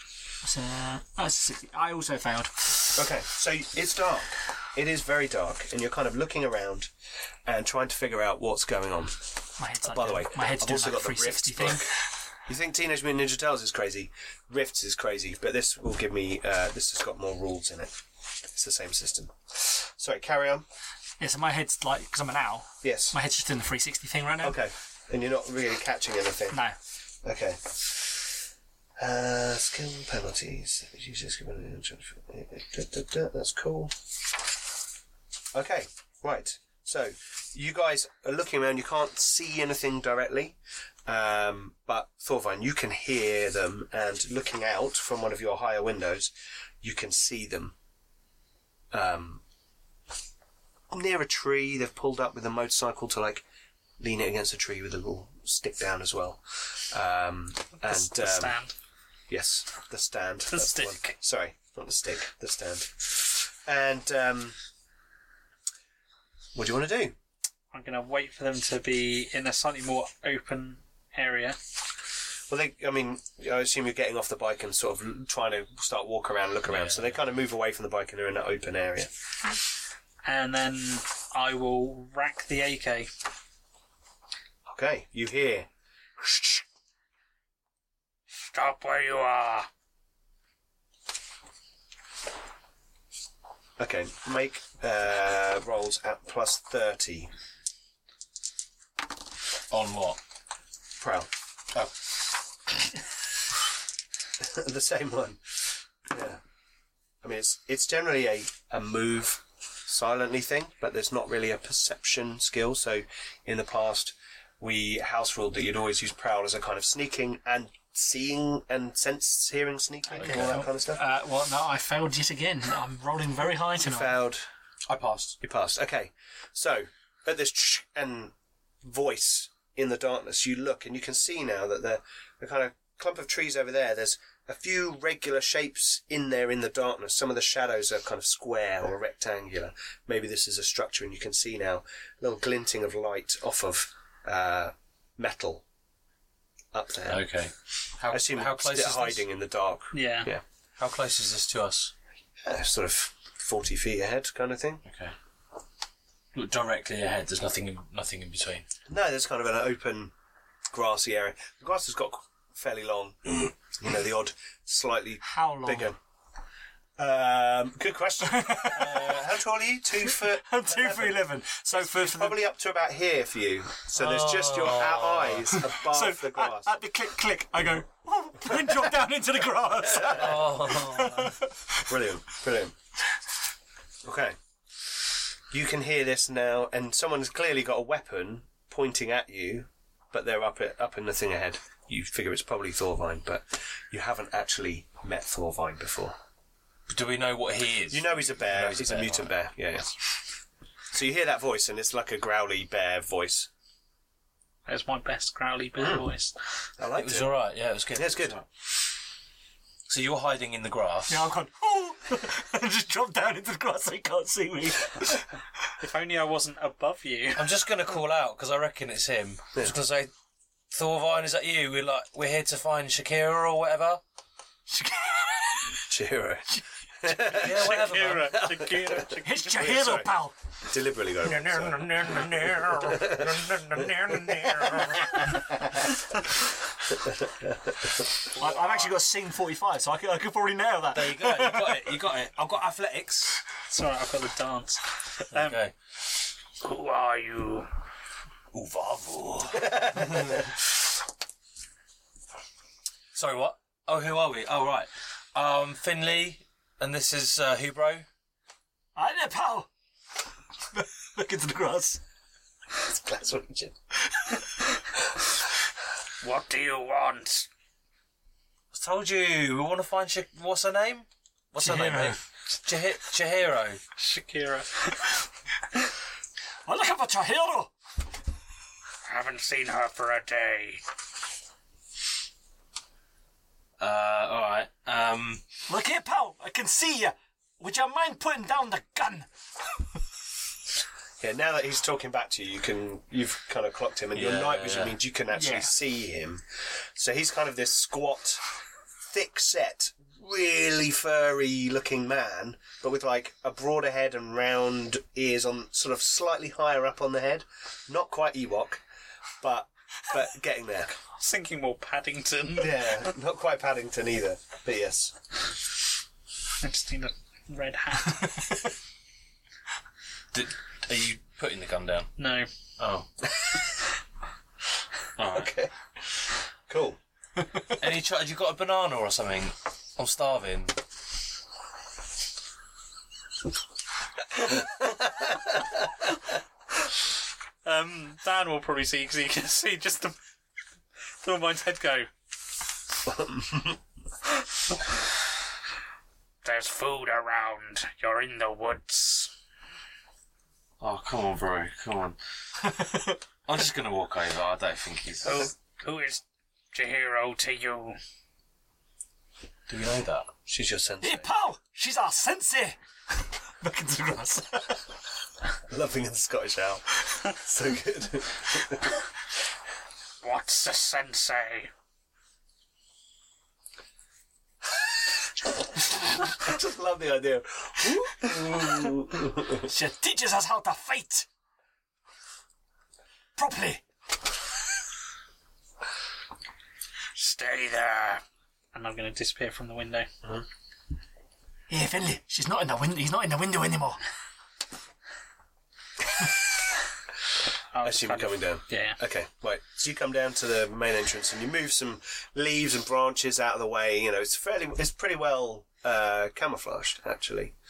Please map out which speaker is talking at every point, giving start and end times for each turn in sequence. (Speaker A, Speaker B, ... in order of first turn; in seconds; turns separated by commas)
Speaker A: 0.4-3.0, Speaker B: 2.9-6.9, Speaker B: 7.5-9.2, Speaker A: 9.6-11.9, Speaker B: 9.8-11.9, Speaker B: 12.5-20.6, Speaker A: 21.2-24.6, Speaker B: 22.8-23.1, Speaker B: 24.4-26.6, Speaker B: 27.2-28.2, Speaker B: 29.0-33.9, Speaker B: 35.5-47.7, Speaker B: 48.9-49.4, Speaker B: 50.9-53.4, Speaker B: 54.0-58.6, Speaker C: 57.8-58.7, Speaker B: 59.3-64.5, Speaker C: 60.5-61.1, Speaker B: 66.5-67.1, Speaker C: 67.7-71.6, Speaker B: 72.5-79.1, Speaker D: 76.7-77.2, Speaker C: 80.2-83.1, Speaker B: 84.7-85.7, Speaker B: 86.2-86.6, Speaker C: 88.4-89.7, Speaker B: 93.8-97.3, Speaker D: 99.7-100.2, Speaker B: 101.0-101.3, Speaker B: 104.4-106.4, Speaker B: 107.2-121.0, Speaker A: 120.1-124.2, Speaker D: 120.2-120.6, Speaker B: 123.8-124.5, Speaker D: 124.9-125.4, Speaker B: 125.4-145.6, Speaker B: 146.7-147.3, Speaker D: 147.1-149.2, Speaker B: 148.1-150.4, Speaker C: 149.9-150.3, Speaker D: 150.8-151.9, Speaker B: 152.4-154.8, Speaker D: 154.8-155.1, Speaker D: 156.3-158.7, Speaker B: 158.9-160.1, Speaker B: 160.7-166.0, Speaker A: 165.2-165.9, Speaker B: 167.0-176.7, Speaker A: 168.2-169.3, Speaker A: 170.1-172.4, Speaker D: 173.9-175.6, Speaker A: 175.6-181.8, Speaker B: 179.9-180.4, Speaker D: 180.0-181.4, Speaker B: 181.8-182.7, Speaker B: 184.0-184.3, Speaker B: 185.5-196.2, Speaker D: 196.9-199.3, Speaker B: 197.9-200.0, Speaker B: 200.9-203.5, Speaker C: 204.7-206.3, Speaker B: 205.8-206.1, Speaker B: 206.8-207.3, Speaker D: 206.9-208.4, Speaker B: 207.9-208.4, Speaker D: 209.9-211.3, Speaker A: 211.1-215.3, Speaker C: 215.8-217.5, Speaker D: 217.3-220.1, Speaker D: 220.7-224.0, Speaker A: 224.7-225.8, Speaker B: 225.8-227.8, Speaker D: 227.2-228.6, Speaker C: 227.4-229.5, Speaker B: 228.6-233.8, Speaker A: 229.2-230.3, Speaker D: 231.2-235.1, Speaker B: 237.0-237.9, Speaker A: 238.3-241.9, Speaker D: 238.3-238.9, Speaker D: 240.9-243.4, Speaker C: 243.7-245.6, Speaker D: 245.3-245.7, Speaker C: 246.6-247.7, Speaker D: 248.5-250.5, Speaker B: 249.6-250.3, Speaker D: 253.1-258.1, Speaker A: 258.9-259.7, Speaker A: 260.7-262.0, Speaker B: 262.9-263.7, Speaker C: 266.2-267.5, Speaker D: 268.7-273.8, Speaker A: 271.6-272.2, Speaker C: 274.0-275.1, Speaker A: 276.6-277.7, Speaker C: 279.0-280.8, Speaker D: 283.8-285.4, Speaker A: 285.7-289.3, Speaker B: 291.2-296.4, Speaker D: 294.1-295.0, Speaker A: 295.3-295.7, Speaker B: 296.9-298.4, Speaker B: 299.1-308.8, Speaker B: 309.4-310.9, Speaker C: 311.1-313.1, Speaker B: 312.6-315.1, Speaker C: 316.6-318.5, Speaker D: 320.3-322.1, Speaker C: 322.2-322.5, Speaker D: 322.8-323.1, Speaker D: 325.2-325.5, Speaker B: 325.3-325.7, Speaker B: 326.7-327.0, Speaker A: 327.4-327.6, Speaker D: 327.8-330.8, Speaker B: 334.5-335.8, Speaker C: 337.6-340.1, Speaker C: 341.2-342.1, Speaker B: 343.0-343.8, Speaker C: 346.4-349.3, Speaker D: 350.8-352.2, Speaker A: 352.6-353.2, Speaker D: 353.4-355.5, Speaker C: 355.2-358.0, Speaker D: 359.7-360.3, Speaker B: 360.4-361.3, Speaker A: 361.0-362.8, Speaker A: 363.6-364.8, Speaker B: 365.7-369.0, Speaker C: 370.2-371.7, Speaker B: 375.9-379.7, Speaker A: 379.6-381.2, Speaker A: 383.4-383.8, Speaker C: 387.1-390.1, Speaker A: 391.7-394.0, Speaker C: 397.7-399.0, Speaker B: 397.8-407.5